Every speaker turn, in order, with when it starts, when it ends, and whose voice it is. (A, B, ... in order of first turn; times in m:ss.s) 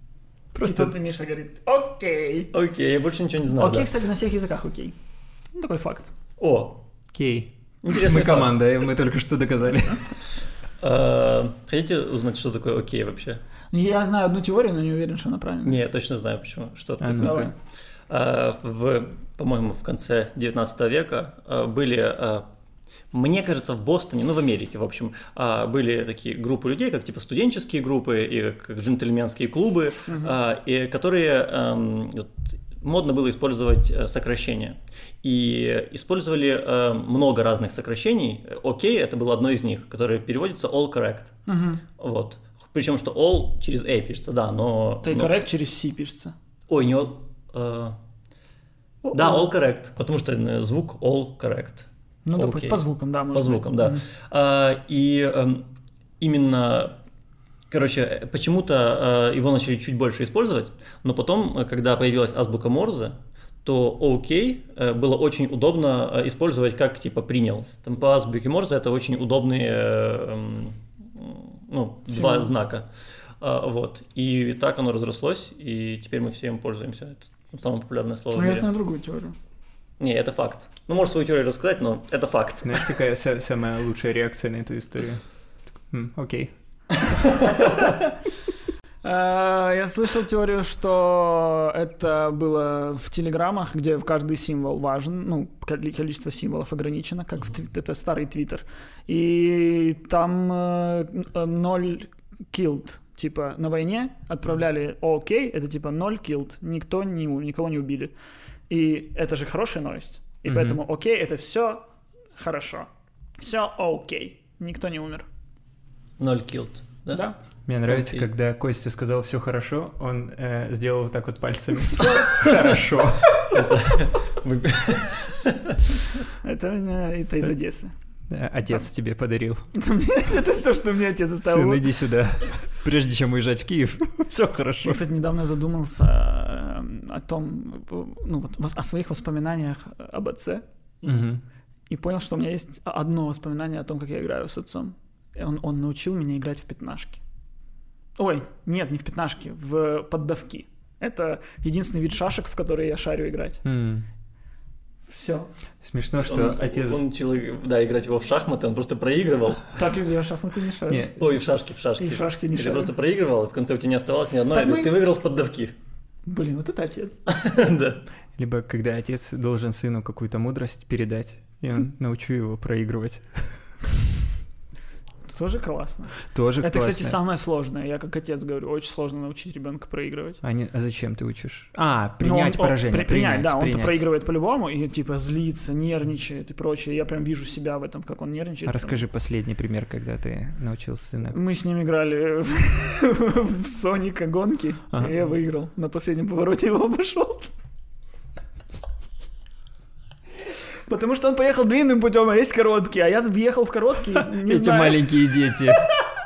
0:00.5-0:00.9 A
0:00.6-0:02.5 B
0:02.5-0:03.9 C
0:03.5-0:05.0 B
0:05.5-0:06.1 B
0:06.4-0:06.8 C
0:07.1-0:10.1 A
0:07.8-0:08.6 C
0:10.8-0:13.4 C
0:13.7-0:15.8 B
0:15.6-0:17.5 C
0:17.0-0:17.5 A
0:17.2-0:17.5 B
0:18.1-0:22.5 C
0:23.1-0:41.4 C
0:30.1-0:30.4 B
0:41.5-0:41.8 B
0:42.0-0:45.3 C
0:45.0-0:46.3 B
0:46.7-0:48.0 C
0:49.0-0:49.5 B
0:49.1-0:55.7 C
0:52.2-0:54.0 B
0:56.2-0:57.0 C
0:57.7-1:12.9 C
1:12.1-1:12.5 B
1:13.4-1:18.7 C
1:18.3-1:19.4 B
1:20.0-1:22.9 C
1:22.6-1:25.2 A
1:25.9-1:26.5 A
1:27.5-1:27.9 B
1:29.0-1:48.1 B
1:48.7-1:51.8 B
1:50.4-1:50.8 A
1:52.4-1:55.3 B
1:56.2-1:57.2 C
1:57.1-1:57.4 B
1:57.7-2:03.5 A
1:57.9-1:58.3 C
2:03.5-2:06.0 C
2:06.4-2:07.9 B
2:08.3-2:09.7 A
2:09.7-2:12.0 B
2:11.4-2:15.0 A
2:14.8-2:20.6 B
2:21.0-2:21.4 A
2:21.9-2:27.2 B
2:28.2-2:33.6 B
2:33.6-2:34.1 A
2:35.1-2:35.5 B
2:35.8-2:37.0 A
2:36.2-2:39.7 C
2:39.7-2:41.4 B
2:40.9-2:41.1 A
2:41.2-2:45.7 C
2:42.0-2:42.9 B
2:44.5-2:45.0 B
2:46.2-2:47.2 B
2:47.3-2:48.0 C
2:48.4-2:53.7 A
2:55.2-3:00.4 B
2:56.2-2:57.2 A
3:00.4-3:04.0 A
3:02.2-3:09.0 B
3:08.6-3:11.4 A
3:11.3-3:17.5 B
3:20.8-3:25.2 B
3:24.2-3:25.9 A